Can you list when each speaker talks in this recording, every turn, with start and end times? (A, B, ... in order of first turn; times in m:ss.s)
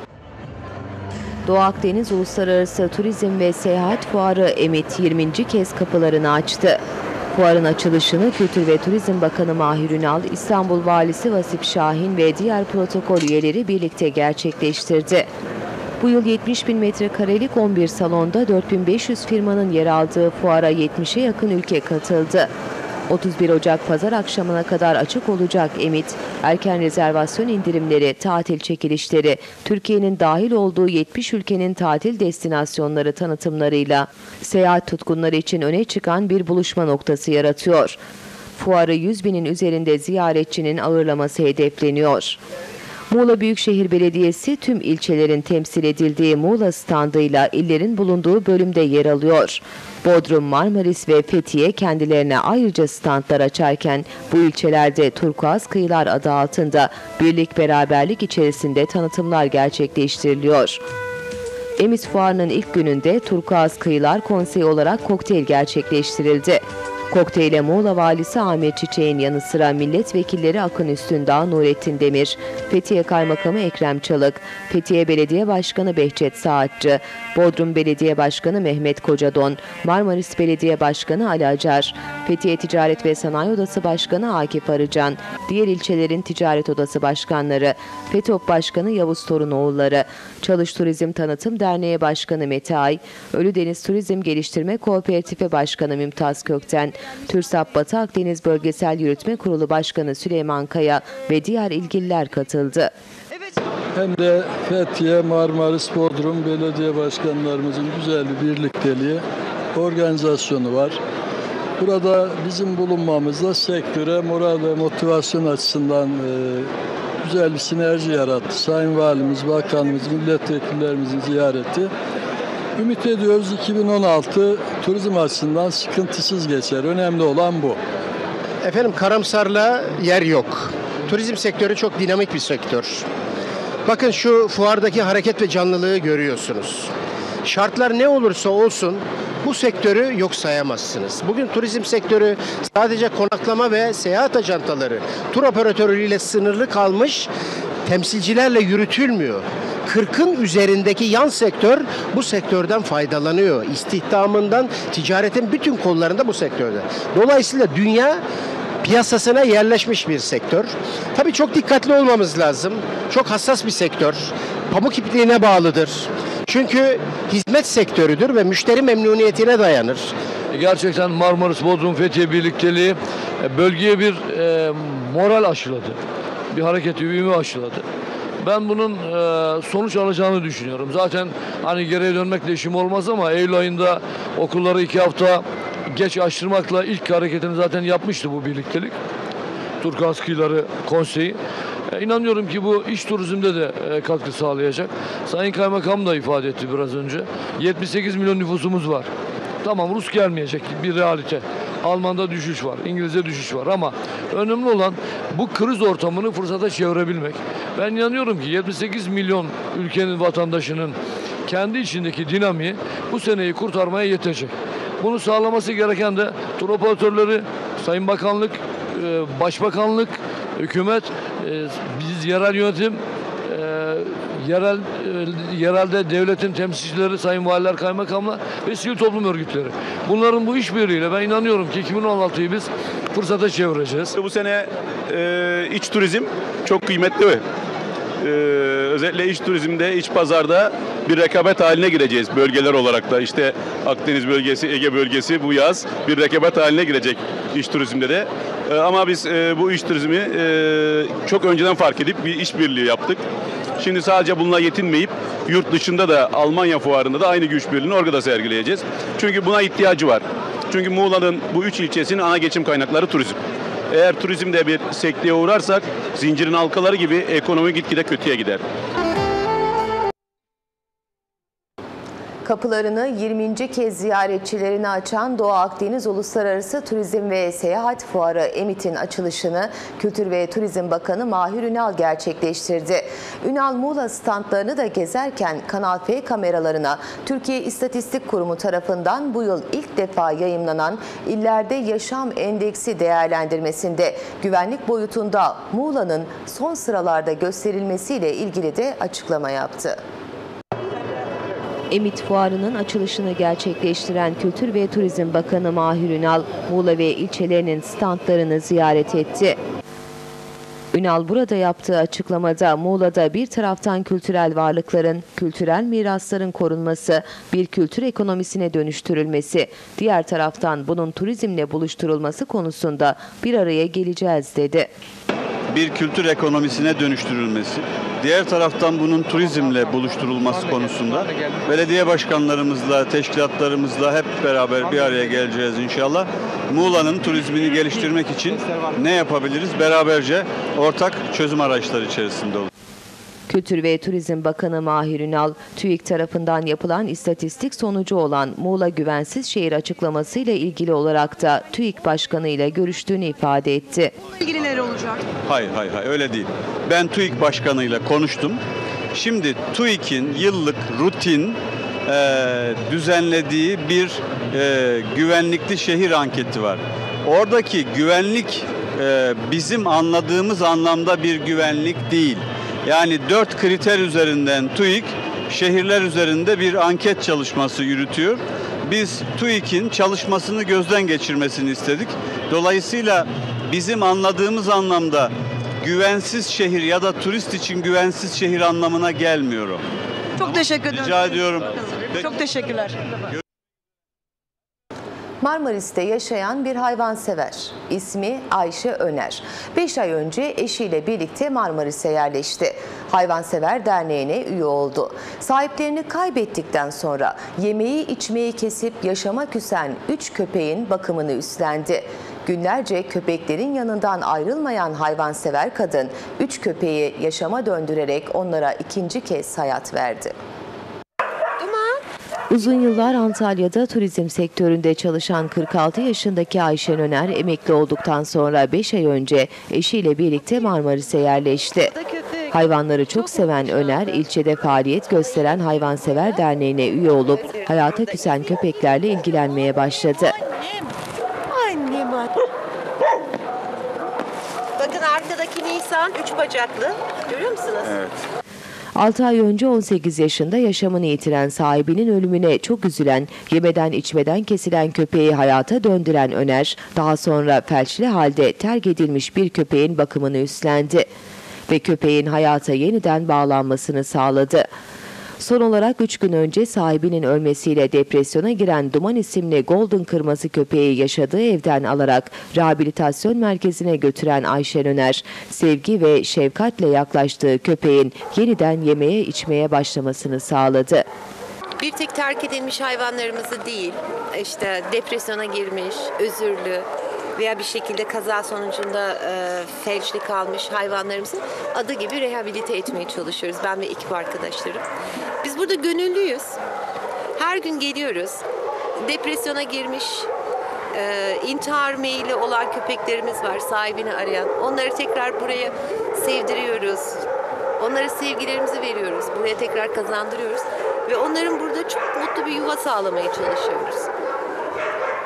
0:01.4-0:06.8 A
0:07.3-0:15.3 A
0:16.0-0:22.5 A
0:23.1-0:38.0 A
0:38.6-0:42.4 A
0:43.1-1:00.8 A
1:01.8-1:42.9 A
1:44.0-1:49.2 B
1:49.8-1:51.0 B
1:51.8-1:56.7 B
1:57.2-2:01.9 B
2:02.8-2:07.8 B
2:08.6-2:13.0 C
2:13.9-2:16.9 C
2:17.4-2:27.3 C
2:27.9-2:38.2 C
2:38.8-2:50.1 C
2:50.5-2:56.0 D
2:56.5-2:57.8 D
2:58.4-3:09.0 D
3:09.8-3:11.4 D
3:11.9-3:19.1 D
3:19.6-3:54.2 D
3:54.2-3:57.4 E
3:58.2-4:13.2 E
4:13.8-4:23.4 E
4:23.9-4:28.6 E
4:32.4-5:00.0 A
5:01.9-5:09.6 A
5:10.9-5:24.9 A
5:25.7-5:42.7 F
5:43.5-5:54.2 A
5:54.5-5:55.2 G
5:55.5-5:58.6 F
5:59.1-6:29.8 F
6:30.4-6:31.3 G
6:30.4-6:32.4 F
6:32.2-6:32.9 G
6:35.4-7:00.3 A
7:01.6-7:02.0 H
7:02.5-7:11.9 A
7:11.9-7:12.6 H
7:12.5-7:20.4 A
7:13.2-7:13.9 H
7:17.4-7:18.1 H
7:21.5-7:22.5 H
7:24.8-7:28.0 H
7:29.0-7:41.1 A
7:41.7-7:44.7 A
7:45.4-8:01.1 A
8:01.8-8:14.8 H
8:15.4-8:16.6 H
8:17.4-8:18.4 H
8:19.0-8:20.3 H
8:20.9-8:27.2 H
8:27.8-8:34.1 H